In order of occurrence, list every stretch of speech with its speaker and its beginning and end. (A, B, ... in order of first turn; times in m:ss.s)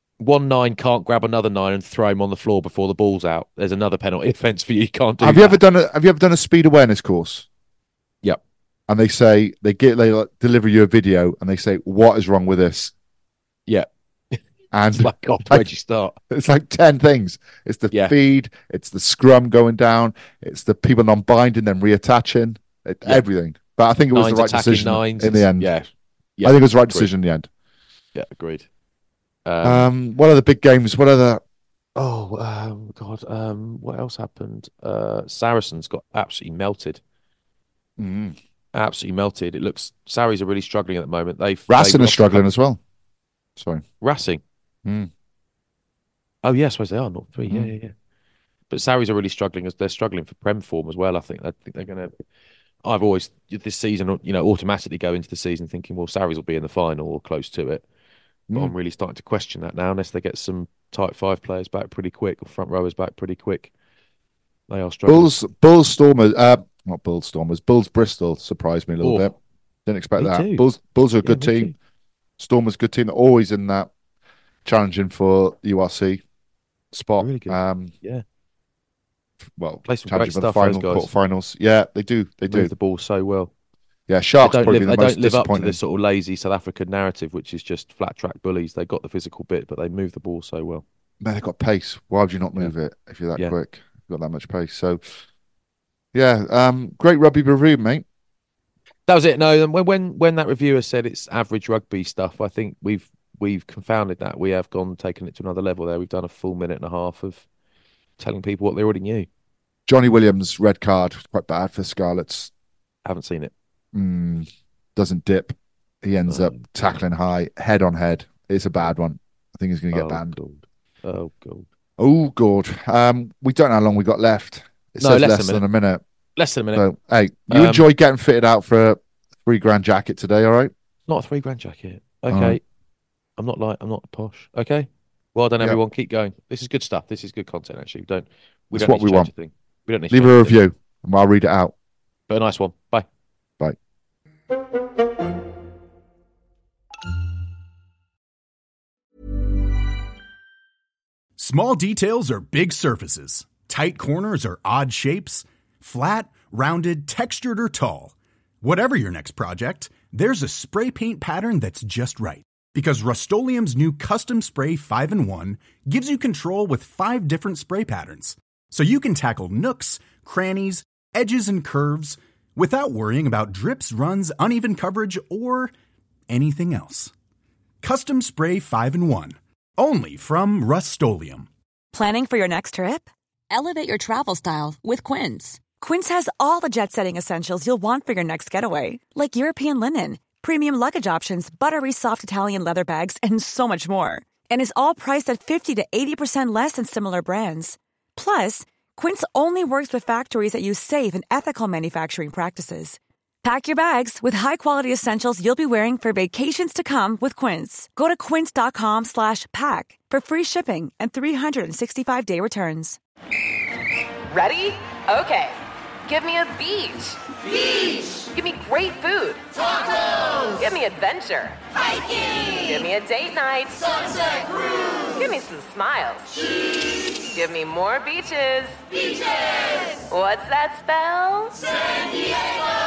0:00.2-0:05.6 A
0:05.2-0:07.5 B
0:08.9-0:12.9 B
0:13.7-0:16.2 A
0:14.7-0:15.7 B
0:16.3-0:25.7 B
0:24.1-0:27.1 A
0:26.4-0:27.5 B
0:28.2-0:28.7 A
0:29.5-0:29.9 A
0:29.6-0:31.4 B
0:32.0-0:37.0 A
0:38.0-0:38.4 B
0:38.7-0:42.5 A
0:41.7-0:42.8 B
0:43.6-0:43.8 B
0:44.0-0:44.4 A
0:44.8-0:45.1 B
0:46.4-0:47.9 A
0:47.5-0:47.7 B
0:48.7-0:52.1 A
0:52.8-0:57.8 A
0:58.5-0:58.7 B
0:58.5-1:03.7 A
1:04.7-1:05.4 A
1:05.1-1:09.3 B
1:09.0-1:09.3 A
1:09.9-1:11.7 B
1:10.2-1:10.7 A
1:11.2-1:11.7 A
1:12.4-1:13.9 B
1:14.6-1:16.2 B
1:16.9-1:17.9 B
1:17.2-1:18.2 A
1:19.6-1:22.7 B
1:19.9-1:21.1 A
1:22.5-1:23.5 A
1:24.1-1:25.8 B
1:24.4-1:30.8 A
1:31.2-1:35.0 B
1:36.1-1:38.0 B
1:39.1-1:47.4 A
1:48.2-1:49.3 A
1:49.9-1:52.5 B
1:53.0-1:53.5 A
1:53.9-2:00.4 B
1:56.3-1:56.6 A
1:59.9-2:01.7 A
2:02.0-2:06.0 B
2:05.0-2:05.6 A
2:06.4-2:06.9 A
2:06.7-2:10.7 B
2:07.5-2:07.9 A
2:11.1-2:12.6 A
2:12.3-2:12.6 B
2:13.4-2:20.6 A
2:18.7-2:19.3 B
2:20.1-2:21.7 B
2:22.3-2:23.1 A
2:31.4-2:55.7 C
2:56.3-2:57.1 C
2:57.8-3:01.5 C
3:01.9-3:03.1 D
3:03.5-3:05.6 E
3:05.8-3:33.0 D
3:34.3-3:52.6 E